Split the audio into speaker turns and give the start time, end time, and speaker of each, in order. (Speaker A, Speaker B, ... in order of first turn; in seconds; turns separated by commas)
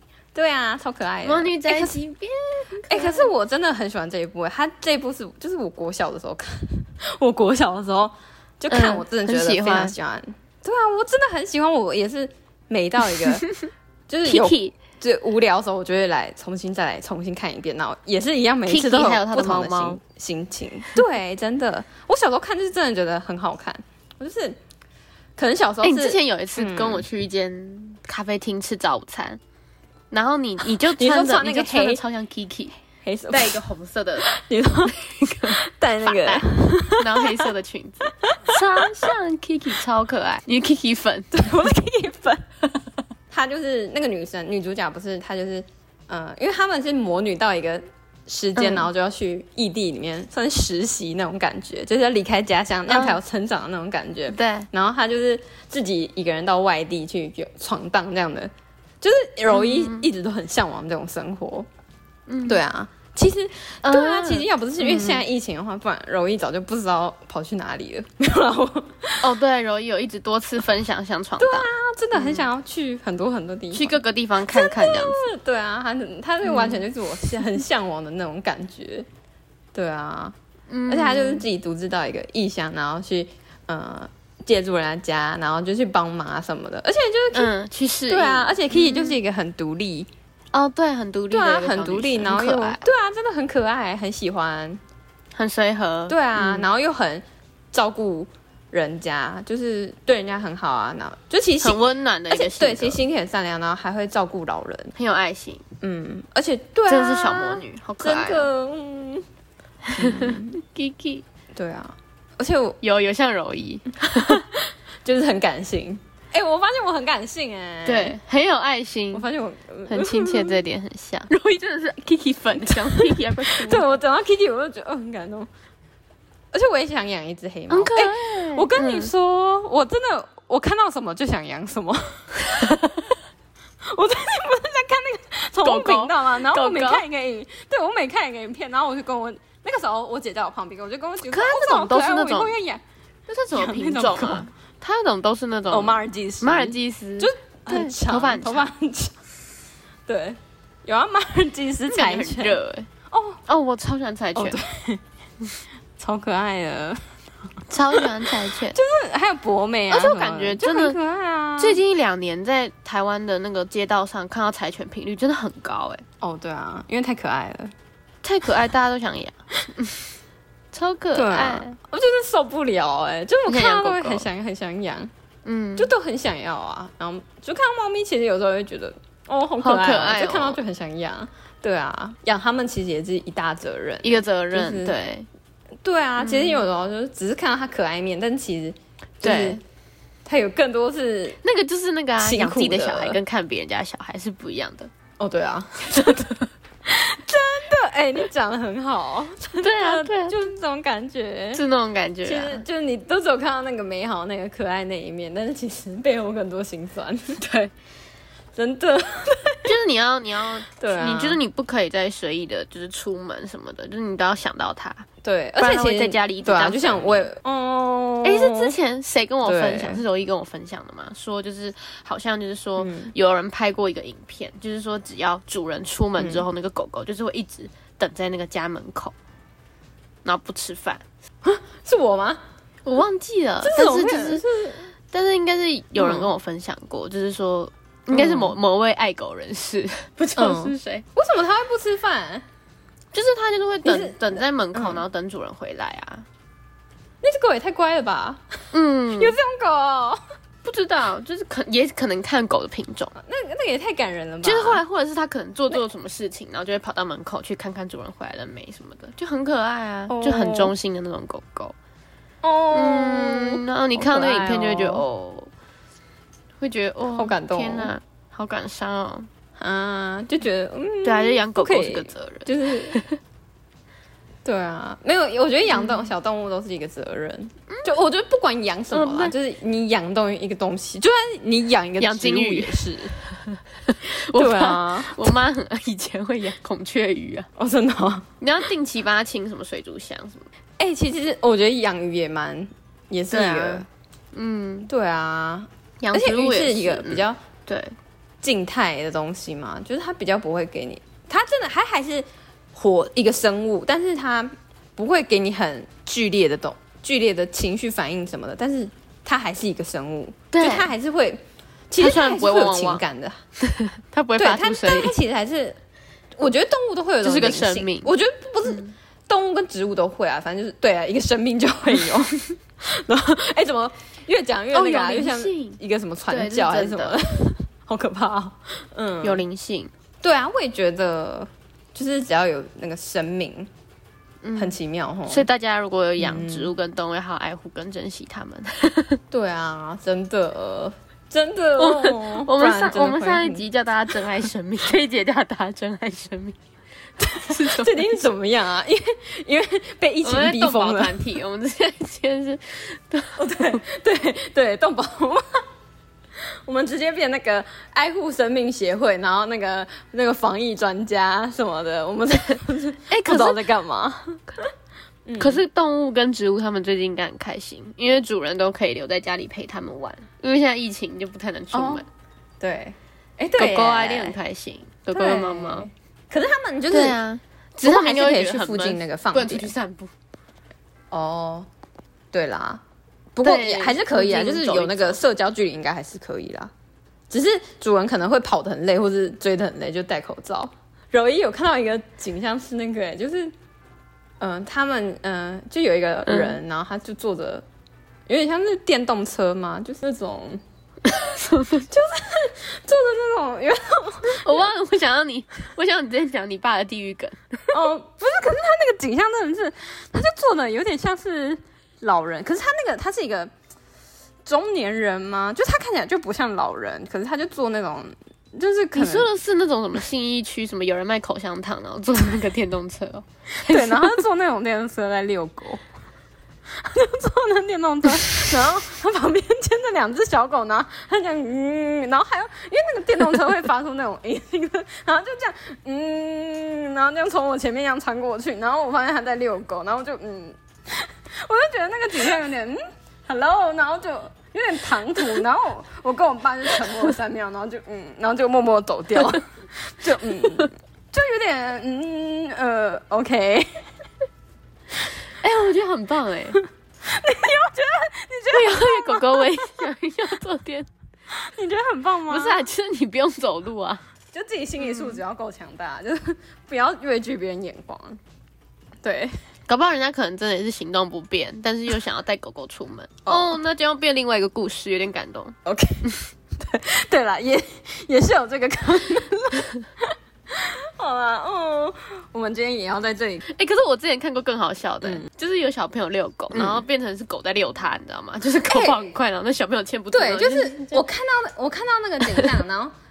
Speaker A: 0.3-2.0, Speaker B: 1.2-3.3, Speaker A: 2.9-13.5, Speaker B: 8.7-9.9, Speaker A: 14.1-24.6, Speaker B: 14.2-14.8, Speaker B: 18.6-20.0, Speaker A: 25.4-27.1, Speaker B: 25.8-29.4, Speaker B: 30.1-32.8, Speaker A: 30.8-32.0, Speaker A: 33.0-33.6, Speaker B: 33.3-34.3, Speaker A: 34.2-37.5, Speaker B: 34.9-41.4, Speaker A: 38.0-39.1, Speaker A: 41.3-42.4, Speaker A: 43.3-61.7, Speaker B: 48.6-48.9, Speaker B: 52.9-53.2, Speaker B: 54.3-54.7, Speaker B: 59.5-60.1, Speaker B: 62.3-62.6, Speaker A: 62.5-69.3, Speaker B: 63.8-65.2, Speaker B: 69.2-72.5, Speaker A: 71.4-79.1, Speaker B: 73.7-75.2, Speaker B: 76.4-77.5, Speaker A: 79.7-80.3, Speaker B: 80.7-81.5, Speaker A: 80.9-87.5, Speaker B: 87.3-89.2, Speaker A: 88.1-90.1, Speaker B: 90.5-92.8, Speaker A: 91.3-94.8, Speaker B: 95.3-96.7, Speaker A: 96.1-104.9, Speaker B: 101.6-103.0, Speaker B: 105.0-105.6, Speaker A: 105.8-109.2, Speaker B: 106.9-108.5, Speaker B: 109.9-111.2, Speaker A: 109.9-110.6, Speaker A: 111.5-112.8, Speaker B: 112.8-114.5, Speaker A: 114.1-114.4, Speaker A: 115.0-118.2, Speaker B: 117.8-119.2, Speaker A: 119.1-120.6, Speaker B: 119.9-124.0, Speaker A: 122.5-125.5, Speaker A: 126.5-132.5, Speaker B: 127.7-129.1, Speaker B: 132.6-133.0, Speaker A: 133.9-142.8, Speaker B: 135.6-137.0, Speaker B: 141.2-142.6, Speaker B: 143.3-148.7, Speaker A: 143.5-144.5, Speaker A: 145.7-149.2, Speaker A: 150.1-153.4, Speaker B: 151.9-152.9, Speaker B: 153.5-154.6, Speaker A: 154.3-155.0, Speaker A: 156.0-157.0, Speaker B: 157.7-158.8, Speaker A: 157.9-161.8, Speaker B: 159.9-161.0, Speaker B: 161.6-166.0, Speaker A: 166.2-167.7, Speaker B: 168.2-170.1, Speaker B: 170.7-171.8, Speaker A: 171.1-175.1, Speaker B: 173.5-174.3, Speaker B: 175.4-175.9, Speaker A: 175.8-185.0, Speaker B: 179.6-180.6, Speaker B: 184.0-185.3, Speaker A: 185.8-189.6, Speaker B: 186.2-186.6, Speaker B: 189.2-189.6, Speaker A: 190.2-191.4, Speaker B: 191.4-194.9, Speaker A: 192.2-193.2, Speaker A: 195.2-196.3, Speaker B: 195.9-196.5, Speaker A: 196.8-201.6, Speaker B: 199.6-200.4, Speaker B: 201.5-202.6, Speaker A: 202.2-207.7, Speaker A: 208.5-209.8, Speaker B: 209.6-215.1, Speaker A: 210.7-211.4, Speaker A: 215.2-218.8, Speaker B: 215.6-217.3, Speaker B: 218.2-229.1, Speaker A: 219.4-220.0, Speaker A: 222.8-223.1, Speaker A: 226.2-226.5, Speaker B: 230.2-231.0, Speaker A: 231.4-232.4, Speaker B: 232.8-234.4, Speaker A: 233.6-234.9, Speaker B: 235.1-241.0, Speaker A: 236.0-236.3, Speaker A: 238.1-238.6, Speaker A: 240.3-242.4, Speaker B: 243.1-246.2, Speaker A: 243.8-245.0, Speaker A: 247.2-248.5, Speaker B: 248.7-249.4, Speaker A: 249.1-250.2, Speaker B: 250.6-253.1, Speaker A: 253.2-254.8, Speaker B: 254.4-261.8, Speaker A: 260.1-260.7, Speaker A: 262.4-265.0, Speaker B: 262.7-265.5, Speaker B: 266.6-269.3, Speaker A: 267.1-267.9, Speaker A: 269.6-273.0, Speaker B: 271.0-273.1, Speaker A: 274.4-283.1, Speaker B: 275.7-276.1, Speaker B: 278.9-279.4, Speaker B: 282.0-287.5, Speaker A: 284.3-285.4, Speaker A: 287.6-288.3, Speaker B: 288.4-290.5, Speaker A: 290.8-293.9, Speaker B: 293.3-294.9, Speaker A: 294.9-297.4, Speaker B: 296.0-297.9, Speaker A: 298.4-313.4, Speaker B: 310.5-310.9, Speaker B: 312.0-313.0, Speaker B: 313.6-315.2, Speaker A: 314.4-315.8, Speaker A: 316.4-329.4, Speaker B: 317.2-318.1, Speaker B: 318.6-318.9, Speaker B: 324.7-327.2, Speaker B: 329.2-329.9, Speaker A: 330.2-333.7, Speaker B: 334.4-339.2, Speaker A: 334.6-335.5, Speaker A: 336.2-336.7, Speaker A: 339.3-343.6, Speaker B: 341.8-346.6, Speaker A: 347.2-351.2, Speaker B: 347.4-348.1, Speaker B: 350.2-353.8, Speaker A: 353.4-355.6, Speaker A: 356.6-364.5, Speaker B: 363.1-363.7, Speaker A: 365.2-365.6, Speaker B: 365.4-372.1, Speaker A: 371.7-372.0, Speaker A: 372.6-374.4, Speaker B: 373.5-375.9, Speaker A: 375.1-377.2, Speaker B: 376.9-380.1, Speaker A: 377.8-379.7, Speaker A: 381.1-381.7, Speaker A: 382.3-382.8, Speaker A: 383.4-386.7, Speaker B: 383.4-385.2, Speaker A: 387.3-393.5, Speaker A: 394.4-397.6, Speaker B: 396.3-396.6, Speaker A: 398.3-404.7, Speaker B: 401.1-401.9, Speaker B: 404.2-407.8, Speaker A: 407.7-413.5, Speaker A: 414.5-419.3, Speaker B: 418.9-424.2, Speaker A: 423.6-425.8, Speaker A: 426.8-453.7, Speaker B: 455.3-456.6, Speaker A: 456.5-459.8, Speaker B: 458.5-460.9, Speaker A: 461.3-462.7, Speaker B: 462.3-464.0, Speaker A: 464.3-468.2, Speaker B: 464.8-465.2, Speaker A: 469.0-469.3, Speaker B: 469.6-475.6, Speaker A: 473.2-473.6, Speaker A: 475.6-483.4, Speaker B: 483.5-491.0, Speaker A: 485.0-485.3, Speaker A: 486.5-486.8, Speaker A: 488.6-489.1, Speaker A: 490.1-492.9, Speaker B: 492.2-492.5